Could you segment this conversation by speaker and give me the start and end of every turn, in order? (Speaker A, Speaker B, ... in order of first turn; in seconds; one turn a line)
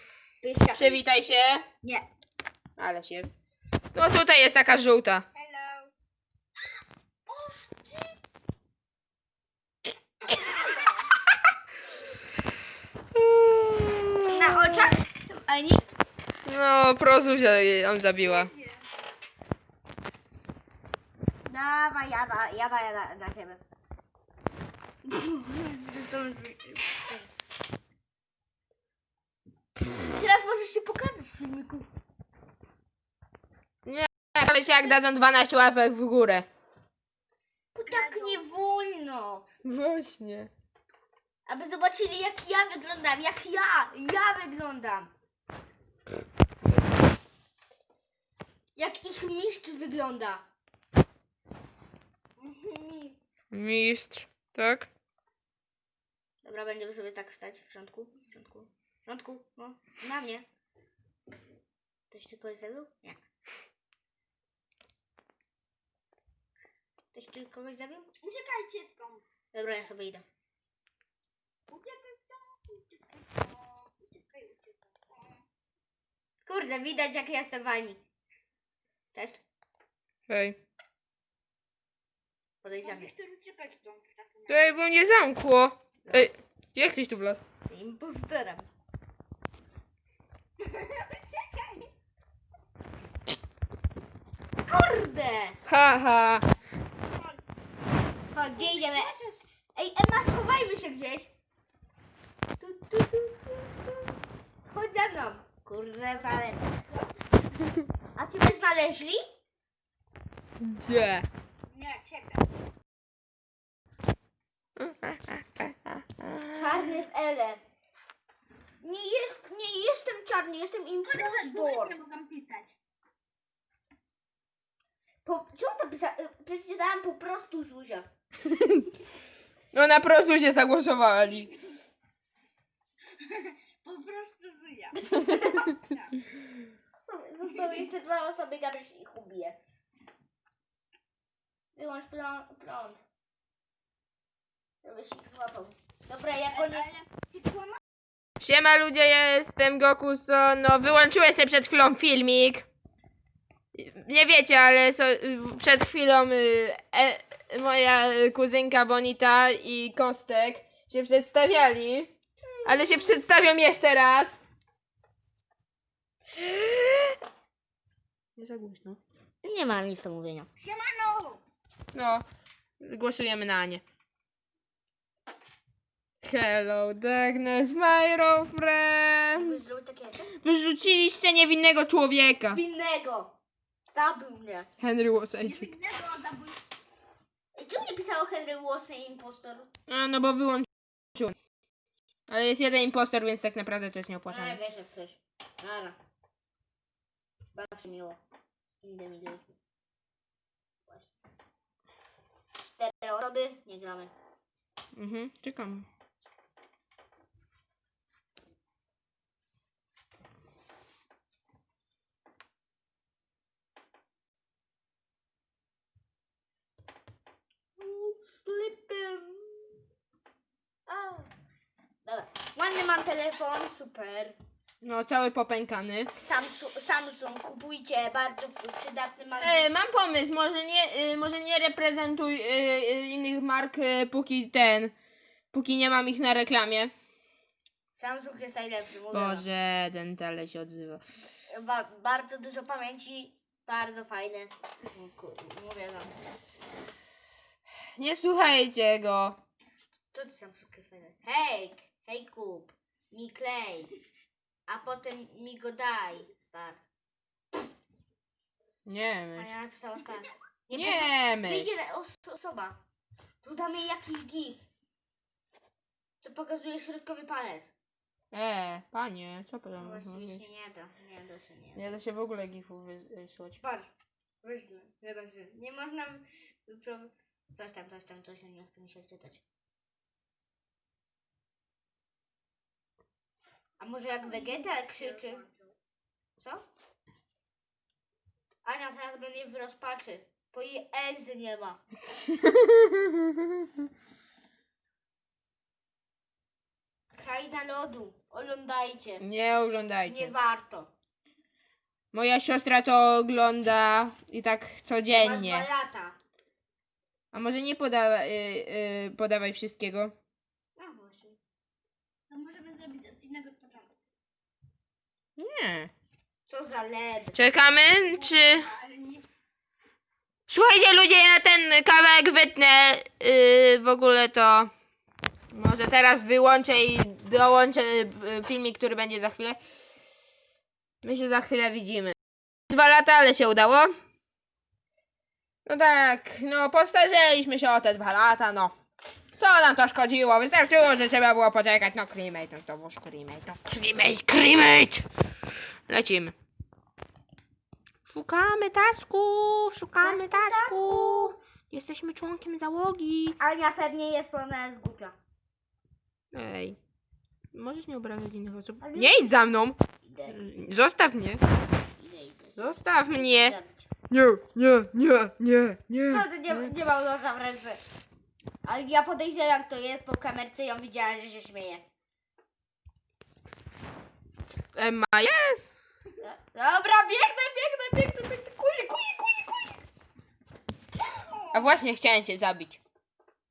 Speaker A: 0.4-1.0
Speaker B: 0.7-1.7
Speaker B: 2.8-3.3
Speaker B: 3.9-5.2
Speaker C: 5.3-5.9
Speaker A: 10.3-10.8
Speaker B: 13.1-14.9
Speaker A: 14.3-15.8
Speaker B: 16.4-18.5
Speaker A: 21.4-23.6
Speaker A: 25.0-27.3
Speaker A: 30.1-31.9
Speaker B: 33.8-36.5
Speaker A: 37.7-39.4
Speaker C: 37.9-38.5
Speaker B: 39.6-40.5
Speaker A: 41.5-45.1
Speaker A: 48.8-50.4
Speaker C: 52.4-53.1
Speaker B: 53.5-54.9
Speaker A: 56.4-60.5
Speaker A: 62.1-63.2
Speaker A: 67.1-68.1
Speaker C: 68.2-69.2
Speaker A: 69.5-70.2
Speaker C: 71.7-75.4
Speaker A: 76.5-78.0
Speaker A: 79.1-79.4
Speaker B: 80.3-80.6
Speaker A: 82.6-83.1
Speaker C: 82.8-84.8
Speaker B: 84.5-87.4
Speaker A: 87.6-88.7
Speaker C: 90.6-91.9
Speaker A: 94.7-95.6
Speaker B: 95.7-96.4
Speaker C: 97.1-97.4
Speaker A: 98.3-99.1
Speaker C: 98.5-99.4
Speaker A: 99.7-101.3
Speaker A: 102.6-104.0
Speaker A: 104.7-106.8
Speaker A: 108.1-109.2
Speaker B: 110.6-111.3
Speaker C: 111.7-112.4
Speaker B: 114.8-116.6
Speaker A: 116.5-117.6
Speaker A: 118.8-122.0
Speaker C: 121.1-122.7
Speaker A: 125.2-128.1
Speaker B: 128.4-128.9
Speaker B: 129.7-131.5
Speaker C: 133.2-135.0
Speaker A: 135.1-135.7
Speaker B: 135.1-135.6
Speaker C: 135.7-136.1
Speaker A: 137.0-139.6
Speaker A: 141.7-143.0
Speaker A: 144.8-146.9
Speaker C: 146.6-147.8
Speaker B: 148.4-152.6
Speaker B: 153.7-162.1
Speaker B: 162.6-164.4
Speaker A: 166.4-167.1
Speaker B: 168.4-169.0
Speaker A: 169.4-170.5
Speaker C: 170.6-171.4
Speaker B: 171.9-172.2
Speaker B: 172.8-173.8
Speaker B: 176.2-179.7
Speaker A: 179.3-180.3
Speaker B: 180.3-182.6
Speaker A: 182.5-183.3
Speaker A: 183.9-184.7
Speaker B: 184.8-185.7
Speaker C: 185.4-186.6
Speaker A: 187.5-189.7
Speaker B: 189.9-191.3
Speaker B: 192.3-194.6
Speaker A: 194.3-196.0
Speaker A: 197.5-198.2
Speaker A: 198.8-199.5
Speaker A: 202.8-204.1
Speaker B: 204.9-205.9
Speaker B: 217.8-219.2
Speaker B: 220.9-221.2
Speaker A: 222.0-224.4
Speaker B: 224.8-226.1
Speaker A: 226.2-229.7
Speaker B: 229.4-234.9
Speaker B: 235.5-236.9
Speaker A: 237.9-239.5
Speaker B: 239.1-241.0
Speaker A: 241.5-246.1
Speaker B: 247.9-249.4
Speaker A: 250.1-253.9
Speaker A: 254.7-256.8
Speaker B: 258.9-259.5
Speaker A: 259.4-262.8
Speaker B: 260.7-261.7
Speaker A: 263.4-264.6
Speaker A: 266.2-267.7
Speaker B: 268.3-270.4
Speaker A: 269.8-271.9
Speaker B: 271.7-273.6
Speaker A: 273.6-273.9
Speaker A: 274.4-279.4
Speaker A: 283.8-285.4
Speaker C: 284.2-285.7
Speaker A: 286.4-286.6
Speaker A: 288.6-291.8
Speaker B: 292.3-293.5
Speaker A: 297.1-299.2
Speaker B: 299.2-300.3
Speaker A: 300.1-300.9
Speaker B: 302.1-305.7
Speaker A: 305.1-306.2
Speaker B: 307.3-310.1
Speaker A: 310.8-311.4
Speaker C: 312.3-313.9
Speaker B: 315.4-315.9
Speaker A: 316.5-317.4
Speaker B: 317.3-318.7
Speaker C: 318.0-319.2
Speaker B: 320.5-324.7
Speaker B: 325.5-329.6
Speaker B: 331.0-332.1
Speaker B: 332.7-333.9
Speaker B: 335.6-338.7
Speaker B: 339.4-345.1
Speaker B: 345.9-346.3
Speaker B: 348.1-353.4
Speaker A: 350.0-351.3
Speaker A: 353.4-355.1
Speaker B: 356.3-356.8
Speaker B: 357.5-361.4
Speaker A: 358.8-359.3
Speaker A: 360.0-360.4
Speaker A: 362.0-363.9
Speaker B: 362.6-363.6
Speaker B: 364.1-366.7
Speaker A: 366.1-367.8
Speaker A: 368.6-371.8
Speaker B: 374.7-375.7
Speaker A: 376.2-379.8
Speaker B: 381.5-382.8